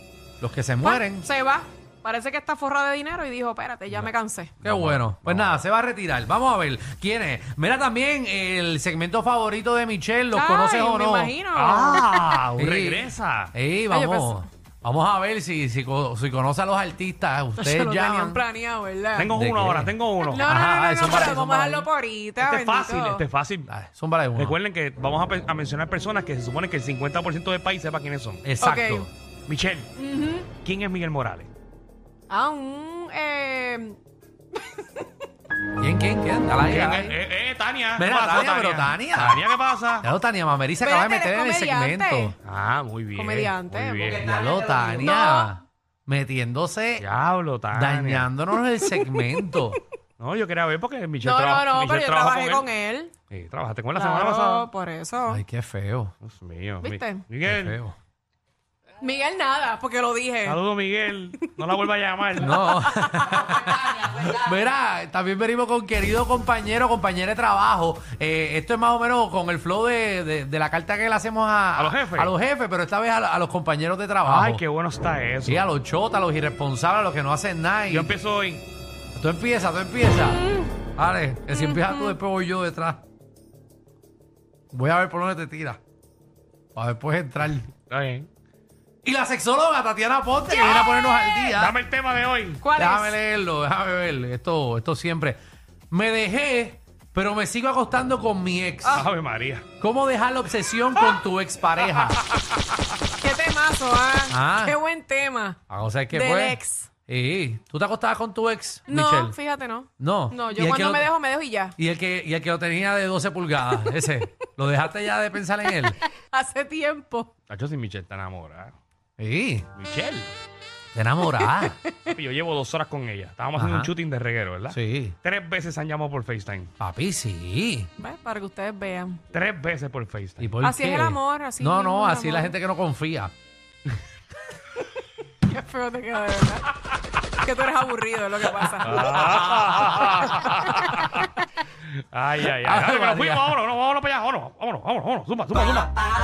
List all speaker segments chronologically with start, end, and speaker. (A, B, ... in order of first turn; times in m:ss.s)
0:00.4-0:01.3 A
0:00.8-0:04.5 B
0:04.6-0:05.6 C
0:04.6-0:11.4 A
0:10.3-0:12.2 B
0:11.5-0:13.5 C
0:12.6-0:18.4 A
0:13.9-0:14.4 B
0:17.6-0:19.3 B
0:19.2-0:20.5 C
0:19.3-0:21.9 A
0:20.3-0:23.2 B
0:22.4-0:23.7 C
0:23.7-0:24.6 A
0:24.4-0:28.4 C
0:28.4-0:29.1 A
0:28.6-0:29.1 B
0:29.5-0:29.9 C
0:30.0-0:30.5 B
0:30.6-0:31.5 C
0:32.3-0:34.0 B
0:34.6-0:35.1 B
0:35.8-0:37.2 A
0:36.6-0:40.1 C
0:38.0-0:39.4 A
0:40.0-0:42.4 A
0:40.8-0:42.4 B
0:42.4-0:44.3 C
0:43.1-0:44.2 B
0:44.2-0:47.1 A
0:44.8-0:45.5 B
0:47.0-0:48.3 C
0:47.7-0:49.8 A
0:48.8-0:49.8 B
0:50.2-0:52.7 C
0:51.2-0:53.1 B
0:53.3-0:54.7 C
0:53.9-0:55.4 B
0:55.3-0:56.1 A
0:56.2-0:57.8 C
0:56.8-0:57.2 B
0:57.4-0:58.0 A
0:59.0-1:00.6 B
1:00.4-1:02.7 C
1:02.4-1:14.6 A
1:02.7-1:03.5 B
1:11.7-1:12.3 C
1:14.2-1:15.7 C
1:15.4-1:18.1 A
1:17.9-1:18.6 C
1:19.1-1:23.0 A
1:20.3-1:20.7 B
1:21.5-1:22.2 B
1:24.7-1:25.8 A
1:26.7-1:27.7 A
1:27.8-1:28.3 C
1:29.0-1:31.8 A
1:31.5-1:32.6 C
1:32.6-1:33.2 B
1:32.8-1:35.4 A
1:35.9-1:39.0 A
1:38.8-1:39.6 C
1:39.8-1:42.2 A
1:43.2-1:45.6 B
1:44.3-1:44.8 A
1:45.7-1:49.4 A
1:46.1-1:46.9 B
1:48.9-1:51.8 B
1:50.0-1:51.1 A
1:51.8-1:56.0 A
1:56.3-1:57.3 B
1:57.5-1:58.7 C
1:59.2-1:59.7 A
1:59.7-2:00.3 C
2:00.9-2:01.8 A
2:01.4-2:01.8 B
2:02.1-2:06.7 C
2:03.6-2:03.9 A
2:04.7-2:05.2 A
2:06.8-2:07.9 A
2:08.0-2:09.2 B
2:09.3-2:10.5 C
2:10.4-2:13.3 A
2:10.6-2:12.5 B
2:15.4-2:19.1 B
2:18.8-2:21.3 C
2:22.1-2:26.0 C
2:22.6-2:23.6 A